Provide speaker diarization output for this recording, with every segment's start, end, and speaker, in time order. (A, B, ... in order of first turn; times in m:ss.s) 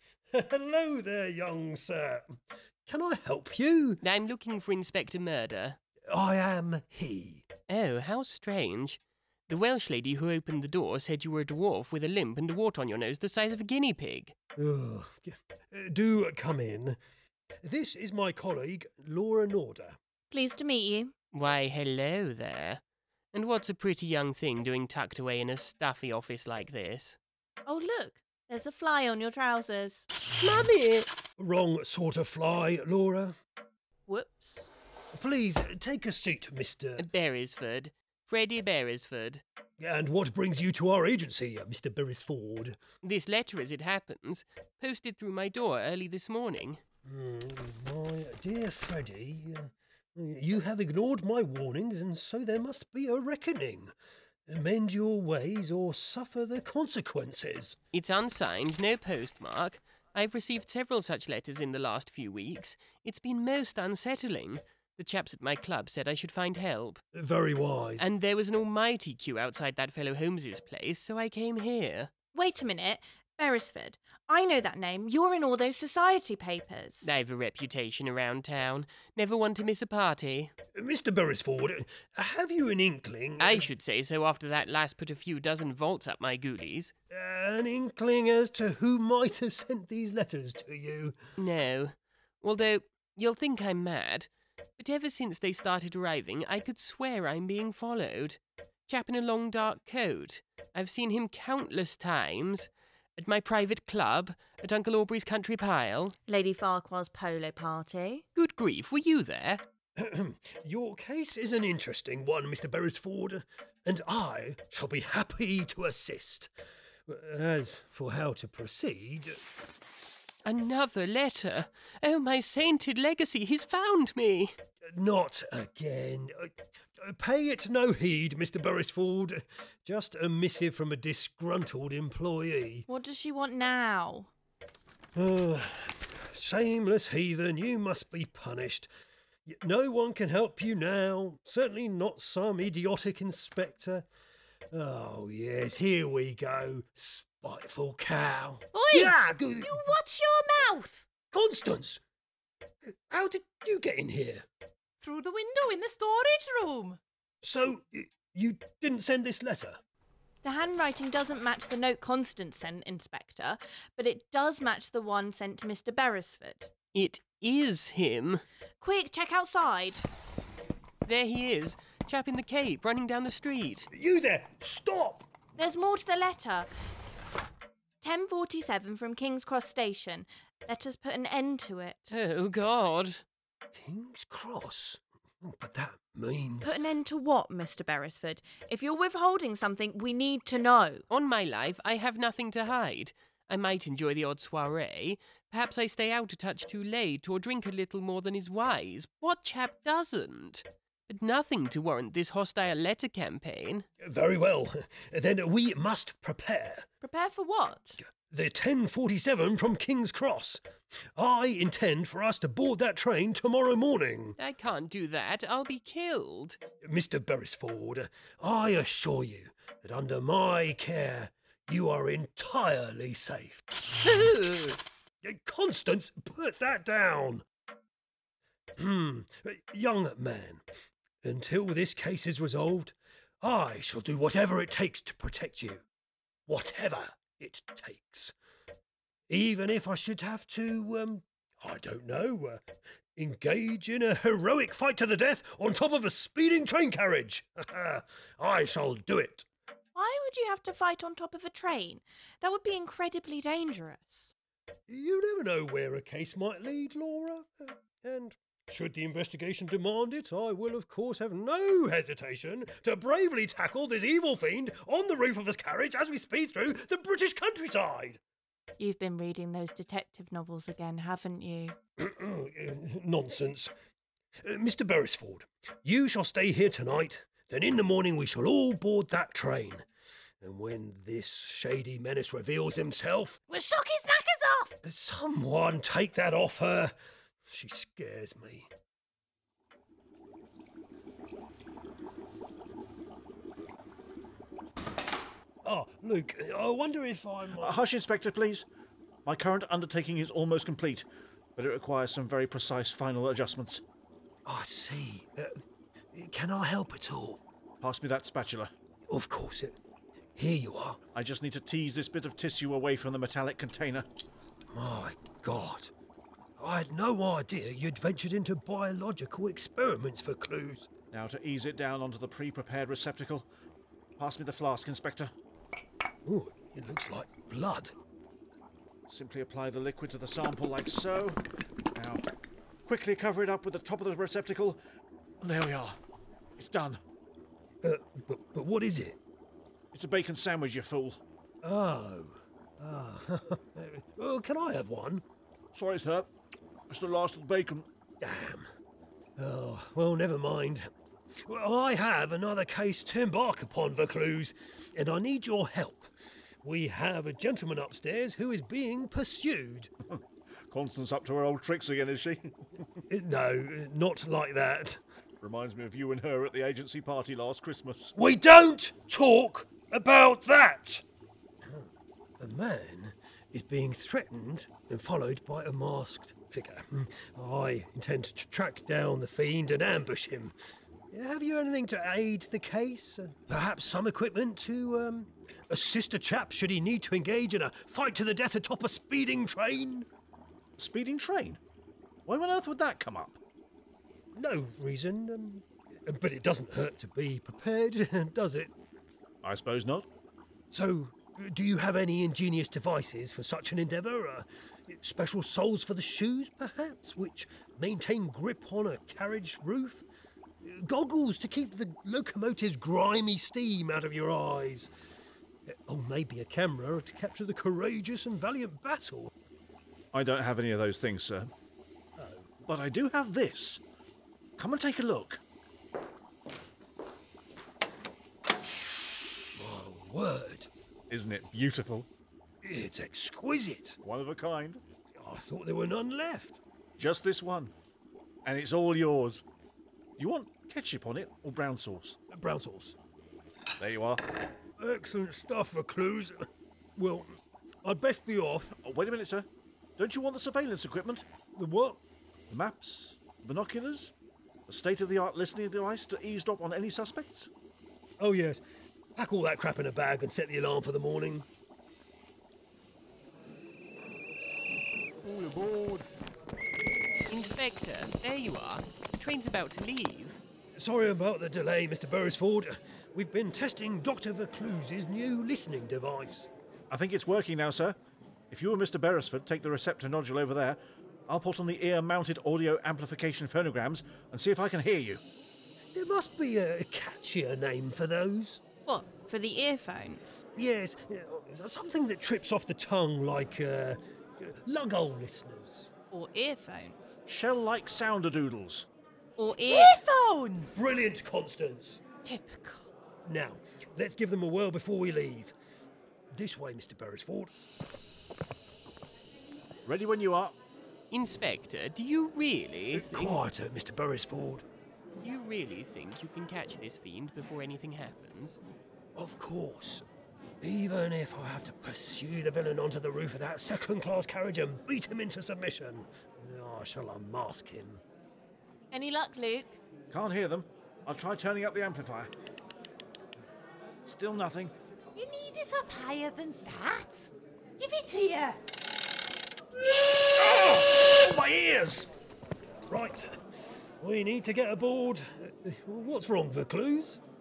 0:00.3-0:04.0 A
0:04.0-0:05.8 B
0:06.1-0:07.4 A
0:07.7-0:14.3 B
0:14.6-0:17.0 A
0:17.6-0:20.0 A
0:20.3-0:21.1 C
0:21.3-0:22.8 B
0:23.3-0:27.2 B
0:27.6-0:30.0 C
0:30.4-0:30.7 A
0:31.4-0:33.4 A
0:34.1-0:34.7 C
0:35.1-0:37.1 A
0:37.0-0:39.4 B
0:39.8-0:42.8 A
0:43.0-0:46.8 B
0:47.0-0:53.9 A
0:54.5-0:57.8 A
0:57.9-1:07.0 B
1:07.1-1:08.0 A
1:08.0-1:12.1 B
1:12.3-1:17.0 C
1:17.0-1:20.5 B
1:20.7-1:23.7 A
1:23.4-1:26.9 B
1:27.1-1:31.1 A
1:31.4-1:46.1 B
1:46.3-1:48.2 C
1:48.3-1:49.6 B
1:50.0-1:56.5 A
1:57.1-1:59.4 A
2:00.4-2:04.5 B
2:04.8-2:12.8 A
2:12.9-2:14.3 C
2:15.1-2:18.9 A
2:19.4-2:24.0 A
2:24.7-2:29.9 A
2:28.7-2:31.1 D
2:31.3-2:32.0 A
2:32.9-2:34.4 A
2:35.0-2:37.0 D
2:37.4-2:39.8 A
2:40.4-2:46.7 C
2:46.9-2:48.4 B
2:48.8-2:50.0 C
2:51.0-2:53.9 B
2:53.9-2:55.2 A
2:55.6-2:56.7 C
2:58.0-3:02.1 C
3:02.1-3:03.2 B
3:03.7-3:06.8 A
3:06.6-3:11.0 C
3:11.1-3:23.8 B
3:24.0-3:26.9 A
3:27.0-3:28.0 C
3:28.1-3:30.6 A
3:31.1-3:34.4 A
3:34.4-3:36.6 B
3:36.8-3:43.6 A
3:44.0-3:44.8 B
3:45.2-3:47.4 A
3:48.8-3:50.6 A
3:51.2-3:55.8 A
3:56.5-3:58.3 A
3:59.3-4:02.6 A
4:03.2-4:09.4 A
4:09.9-4:14.3 C
4:14.9-4:28.2 A
4:28.8-4:31.8 C
4:32.0-4:33.7 A
4:34.4-4:39.8 A
4:40.4-4:43.4 A
4:43.5-4:44.8 D
4:44.8-4:46.9 A
4:47.5-4:48.7 A
4:55.6-4:57.8 A
4:57.6-4:58.6 E
4:59.2-5:03.8 E
5:04.4-5:05.5 A
5:06.1-5:07.4 A
5:07.8-5:08.7 E
5:09.1-5:09.8 A
5:10.4-5:11.0 A
5:11.1-5:14.0 E
5:14.7-5:15.9 A
5:16.6-5:20.9 A
5:21.1-5:23.5 E
5:24.2-5:25.3 E
5:26.2-5:27.9 A
5:29.1-5:31.4 E
5:31.9-5:32.2 E
5:32.8-5:34.8 E
5:35.4-5:36.0 E
5:36.6-5:37.0 E
5:37.8-5:39.2 A
5:39.9-5:41.2 E
5:41.6-5:45.2 A
5:45.7-5:46.3 E
5:46.9-5:47.8 E
5:48.2-5:48.7 A
5:49.4-5:50.9 A
5:51.4-5:56.1 A
5:56.6-5:59.9 A
6:00.1-6:02.5 E
6:03.1-6:05.0 A
6:05.4-6:08.1 E
6:08.2-6:11.0 A
6:11.6-6:20.5 A
6:21.1-6:30.1 A
6:30.8-6:31.6 E
6:32.2-6:33.4 E
6:34.3-6:38.7 A
6:39.4-6:40.1 E
6:40.7-6:50.0 A
6:50.6-6:54.9 A
6:55.7-6:59.3 A
7:00.1-7:01.5 E
7:02.2-7:02.5 A
7:02.6-7:03.8 E
7:04.6-7:05.4 E
7:09.5-7:10.7 A
7:11.1-7:12.1 E
7:12.6-7:14.0 A
7:14.0-7:14.8 E
7:15.2-7:16.6 A
7:17.0-7:17.7 E
7:18.4-7:19.4 E
7:20.2-7:22.2 E
7:22.3-7:22.9 A
7:23.8-7:24.2 E
7:24.8-7:26.4 A
7:27.0-7:28.7 A
7:28.8-7:29.5 E
7:30.0-7:31.2 E
7:31.6-7:32.0 A
7:32.5-7:34.1 E
7:34.7-7:37.5 E
7:38.2-7:38.6 A
7:39.2-7:41.5 A
7:47.3-7:50.4 B
7:50.8-7:56.5 A
7:56.9-7:58.0 E
7:58.5-8:05.2 E
8:05.9-8:08.6 A
8:08.9-8:10.4 C
8:10.6-8:15.9 A
8:16.1-8:17.2 C
8:17.3-8:18.9 E
8:19.4-8:20.0 C
8:19.6-8:20.8 D
8:20.7-8:22.0 A
8:22.2-8:22.9 D
8:23.2-8:25.5 A
8:26.3-8:27.5 A
8:29.8-8:30.6 E
8:31.1-8:33.4 B
8:32.9-8:34.6 A
8:35.2-8:38.6 B
8:39.2-8:40.0 A
8:40.6-8:48.0 A
8:48.9-8:49.8 C
8:50.1-8:52.3 E
8:54.0-8:54.7 E
8:55.1-8:58.6 D
9:00.1-9:02.1 E
9:02.9-9:03.3 A
9:04.0-9:07.2 A